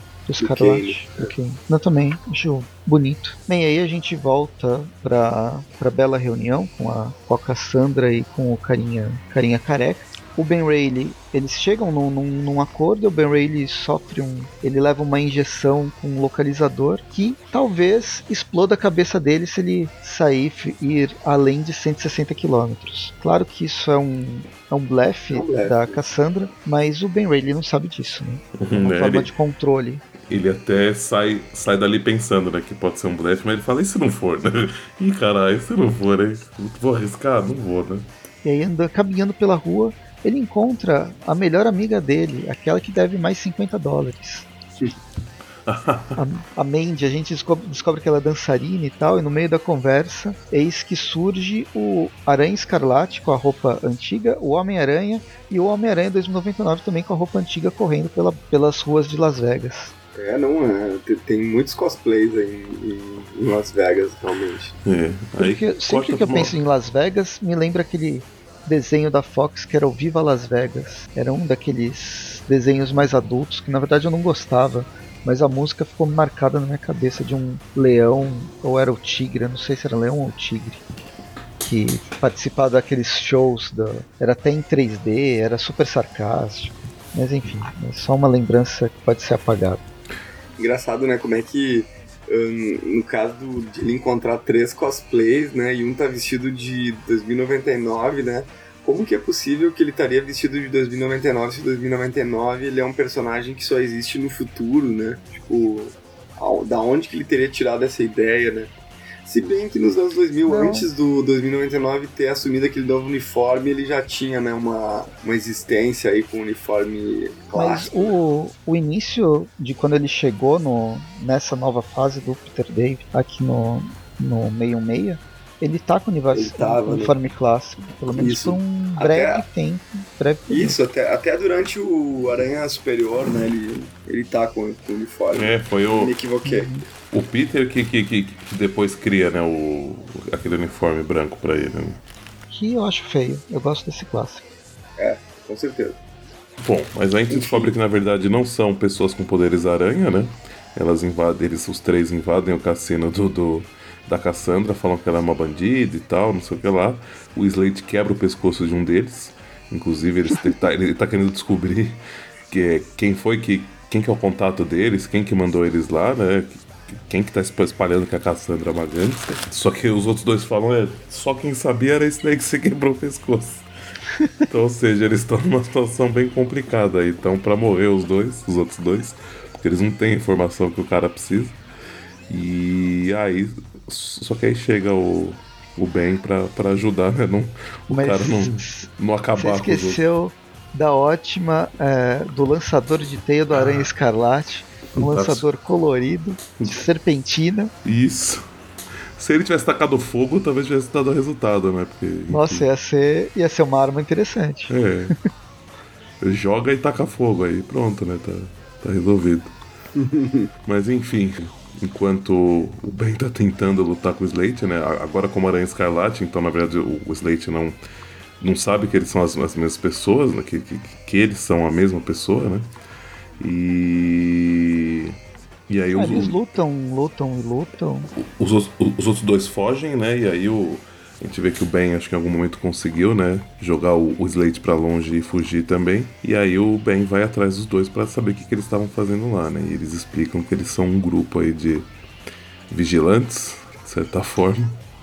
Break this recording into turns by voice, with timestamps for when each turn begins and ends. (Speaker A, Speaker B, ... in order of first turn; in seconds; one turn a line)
Speaker A: 0.3-30.0
Speaker B: 0.4-1.3
Speaker B: 25.3-26.0
Speaker C: 28.6-29.3
Speaker C: 30.3-38.1
Speaker A: 38.4-44.5
Speaker C: 45.7-46.2
Speaker A: 46.2-59.9
Speaker B: 60.2-64.8
Speaker C: 64.8-66.6
Speaker A: 65.4-80.8
Speaker A: 81.6-89.8
Speaker B: 90.6-108.7
Speaker B: 109.2-118.1
Speaker A: 110.5-110.9
Speaker A: 117.5-130.8
Speaker B: 126.3-127.1
Speaker B: 128.1-129.5
Speaker B: 130.5-136.7
Speaker C: 135.3-136.1
Speaker A: 136.4-136.8
Speaker C: 137.1-142.0
Speaker A: 142.5-144.4
Speaker B: 145.0-146.0
Speaker C: 146.6-173.7
Speaker B: 147.3-147.7
Speaker A: 174.2-174.4
Speaker C: 174.5-181.6
Speaker C: 182.3-190.0
Speaker A: 187.9-197.7
Speaker C: 194.9-195.5
Speaker C: 197.8-198.4
Speaker C: 199.2-202.7
Speaker A: 202.3-205.2
Speaker C: 204.7-205.2
Speaker C: 206.2-209.5
Speaker B: 209.9-210.5
Speaker C: 210.7-217.8
Speaker C: 218.4-222.7
Speaker C: 223.4-225.2
Speaker C: 225.7-226.4
Speaker A: 225.9-228.1
Speaker C: 228.2-241.9
Speaker C: 242.7-244.8